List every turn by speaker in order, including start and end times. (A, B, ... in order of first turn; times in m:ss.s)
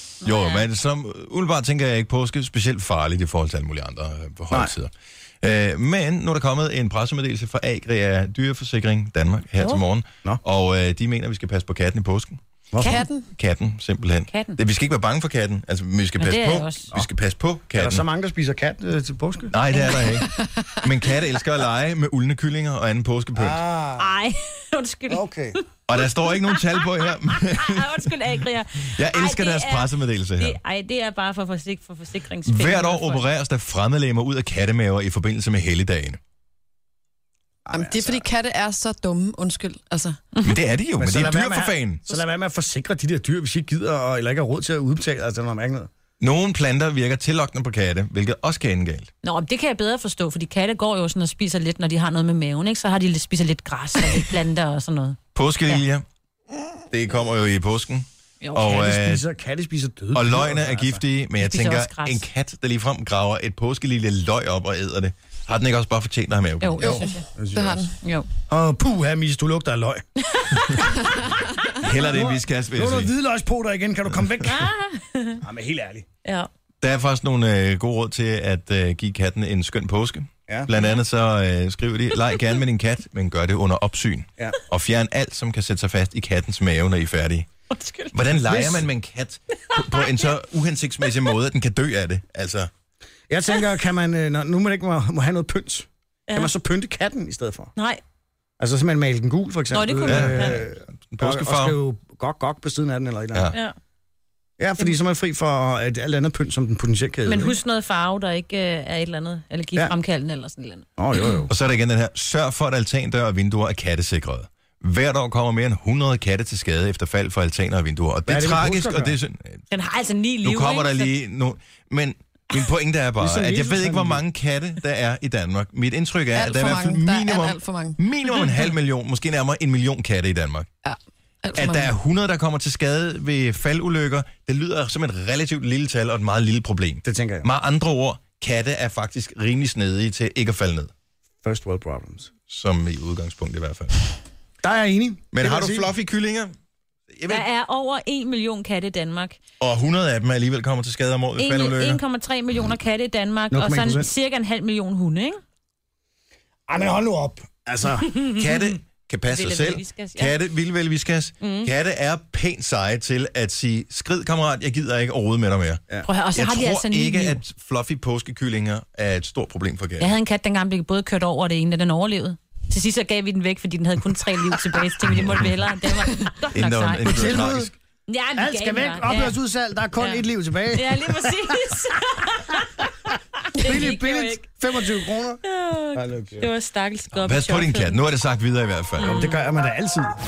0:00.2-0:04.9 A
0:00.2-0:00.6 B
0:05.4-0:12.4 A
0:12.7-0:13.0 C
0:12.8-0:13.2 D
0:13.3-0:18.0 A
0:14.3-0:14.6 B
0:16.2-0:16.9 B
0:17.7-0:19.5 C
0:19.5-0:23.6 A
0:19.7-0:20.2 B
0:23.3-0:24.1 C
0:24.0-0:33.2 B
0:25.1-0:25.6 C
0:25.9-0:28.1 A
0:28.9-0:30.6 A
0:32.4-0:36.2 A
0:37.6-0:38.2 C
0:37.7-0:40.2 D
0:40.4-0:42.0 A
0:41.0-0:45.9 C
0:46.2-0:49.1 A
0:49.2-0:55.8 B
0:55.3-0:56.0 A
0:56.9-0:59.2 A
0:58.4-0:59.0 B
0:58.7-1:01.0 C
1:00.1-1:07.1 A
1:01.4-1:02.2 B
1:06.6-1:07.3 B
1:06.8-1:07.9 C
1:07.5-1:07.9 D
1:08.0-1:08.3 B
1:08.5-1:10.0 C
1:10.3-1:10.7 B
1:11.8-1:13.1 A
1:11.9-1:14.7 C
1:14.4-1:15.4 B
1:15.4-1:16.1 C
1:16.8-1:27.5 A
1:20.8-1:21.0 B
1:27.7-1:28.1 B
1:28.1-1:32.7 A
1:28.5-1:28.8 C
1:33.3-1:37.7 C
1:37.8-1:38.0 B
1:38.6-1:43.5 C
1:39.7-1:40.6 B
1:40.1-1:41.8 A
1:44.6-1:47.6 C
1:47.2-1:51.4 B
1:51.0-1:51.5 C
1:51.5-1:59.6 A
1:58.3-1:59.2 C
1:59.7-2:01.1 B
2:00.4-2:10.7 A
2:03.2-2:04.2 C
2:06.3-2:08.0 D
2:10.8-2:11.9 D
2:11.6-2:20.9 A
2:17.0-2:17.5 C
2:21.4-2:22.3 C
2:22.5-2:23.9 A
2:24.6-2:25.9 C
2:25.3-2:26.5 A
2:27.1-2:27.4 A
2:27.3-2:29.4 B
2:29.6-2:32.0 A
2:31.4-2:35.4 B
2:33.5-2:34.1 C
2:36.7-2:38.1 C
2:38.4-2:45.8 A
2:39.3-2:40.3 B
2:41.4-2:41.7 B
2:46.0-2:47.4 B
2:46.3-2:50.1 A
2:50.0-2:57.5 B
2:56.5-2:57.7 A
2:57.0-2:57.7 C
2:58.1-2:59.4 B
2:58.3-3:01.7 C
2:59.9-3:02.9 B
3:03.5-3:04.4 B
3:03.6-3:06.5 C
3:05.4-3:08.0 B
3:07.2-3:09.2 A
3:09.0-3:09.4 B
3:09.0-3:10.1 C